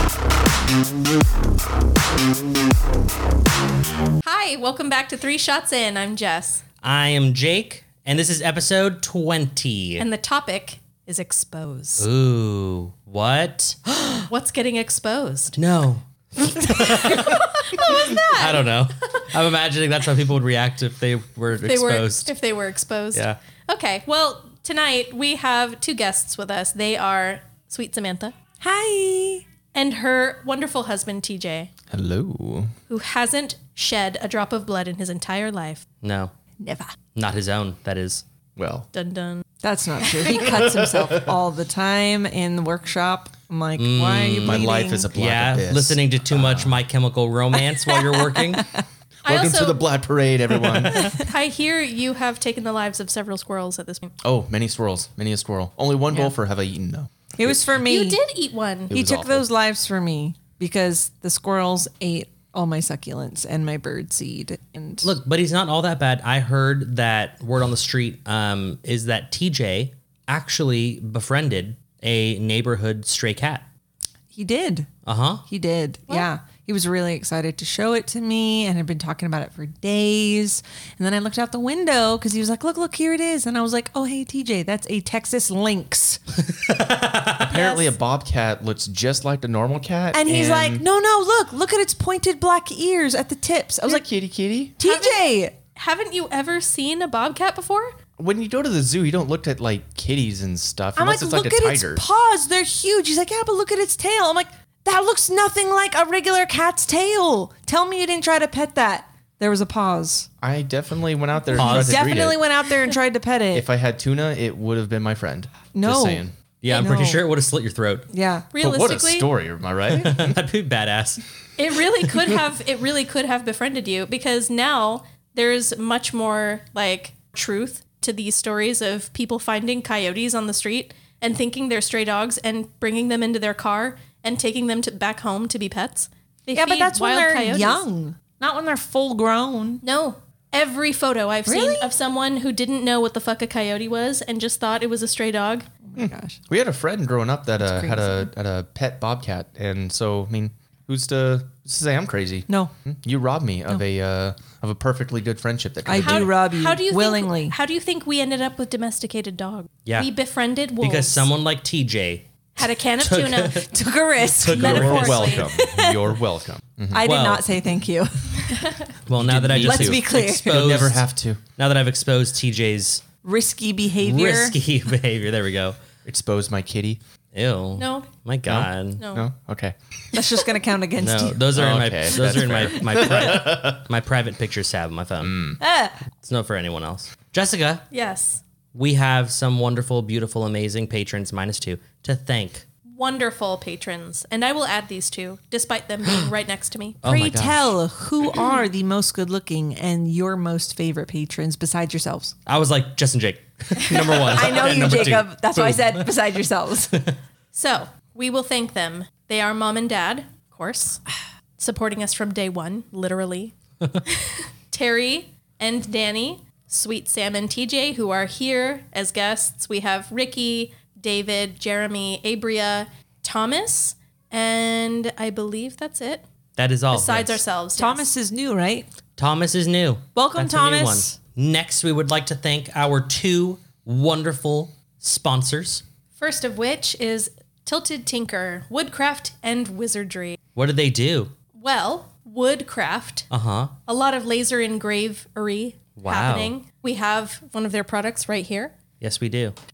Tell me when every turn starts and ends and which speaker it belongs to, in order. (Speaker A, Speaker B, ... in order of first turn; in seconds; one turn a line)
Speaker A: 4.2-6.6
Speaker B: 6.8-10.1
Speaker A: 10.0-12.1
Speaker B: 12.0-14.3
Speaker A: 14.3-15.6
Speaker B: 15.6-22.3
Speaker A: 16.8-18.7
Speaker A: 21.6-28.3
Speaker C: 28.6-29.4
Speaker A: 29.7-31.7
Speaker D: 31.9-32.7
Speaker A: 32.9-35.8
Speaker B: 36.0-36.3
Speaker C: 36.6-36.9
Speaker B: 37.1-38.2
Speaker D: 38.6-38.9
Speaker A: 38.9-39.5
Speaker C: 39.6-45.1
Speaker D: 40.2-41.4
Speaker B: 43.8-48.7
Speaker D: 44.4-46.8
Speaker C: 47.9-48.8
Speaker D: 49.2-51.1
Speaker A: 49.2-49.9
Speaker C: 50.9-51.3
Speaker A: 51.0-54.1
Speaker D: 54.2-57.6
Speaker C: 57.4-58.2
Speaker A: 57.8-58.9
Speaker D: 58.9-59.5
Speaker C: 58.9-65.1
Speaker B: 65.0-73.7
Speaker C: 74.3-74.9
Speaker B: 75.0-75.4
Speaker C: 75.5-86.2
Speaker B: 86.5-87.5
Speaker D: 87.4-90.8
Speaker A: 87.5-87.9
Speaker C: 90.1-94.0
Speaker B: 90.3-90.6
Speaker D: 93.8-94.8
Speaker C: 94.8-95.5
Speaker A: 94.8-98.0
Speaker D: 98.2-102.0
Speaker C: 101.0-110.3
Speaker D: 110.4-112.4
Speaker C: 111.5-113.7
Speaker B: 111.5-112.2
Speaker D: 113.5-116.3
Speaker C: 115.8-117.2
Speaker B: 116.6-118.1
Speaker C: 118.1-118.5
Speaker A: 118.5-119.3
Speaker D: 118.6-120.4
Speaker B: 119.9-121.2
Speaker A: 121.6-137.8
Speaker C: 136.6-139.8
Speaker A: 139.8-145.7
Speaker C: 141.5-141.9
Speaker C: 145.9-146.4
Speaker D: 146.0-156.3
Speaker C: 147.6-148.3
Speaker C: 152.5-152.7
Speaker C: 155.9-157.6
Speaker A: 155.9-161.3
Speaker B: 160.8-162.3
Speaker A: 162.6-163.7
Speaker B: 163.0-165.4
Speaker C: 163.7-166.2
Speaker D: 164.4-167.1
Speaker A: 164.6-165.4
Speaker C: 166.9-168.8
Speaker B: 167.0-167.5
Speaker B: 169.1-171.1
Speaker D: 169.1-171.4
Speaker C: 169.6-170.7
Speaker B: 171.6-173.0
Speaker C: 173.2-174.6
Speaker B: 174.0-175.8
Speaker D: 176.1-177.0
Speaker B: 177.3-179.0
Speaker A: 177.8-178.1
Speaker D: 178.5-179.8
Speaker A: 179.0-179.3
Speaker C: 180.1-181.6
Speaker B: 181.0-185.4
Speaker D: 181.5-183.8
Speaker D: 185.2-185.6
Speaker C: 185.6-186.0
Speaker B: 186.2-187.8
Speaker A: 187.9-188.4
Speaker B: 188.7-192.7
Speaker A: 192.9-197.0
Speaker B: 197.0-197.7
Speaker C: 197.1-202.3
Speaker D: 197.1-197.6
Speaker B: 202.5-206.1
Speaker C: 204.2-207.1
Speaker A: 207.5-211.0
Speaker A: 211.6-213.5
Speaker A: 214.1-226.2
Speaker B: 226.6-227.4
Speaker A: 226.9-228.1
Speaker C: 227.8-228.9
Speaker B: 229.2-235.8
Speaker C: 230.2-231.1
Speaker A: 236.2-240.4
Speaker B: 240.6-241.3
Speaker A: 241.6-243.3
Speaker B: 243.3-243.7
Speaker A: 243.9-248.7
Speaker B: 246.0-246.5
Speaker B: 249.0-249.6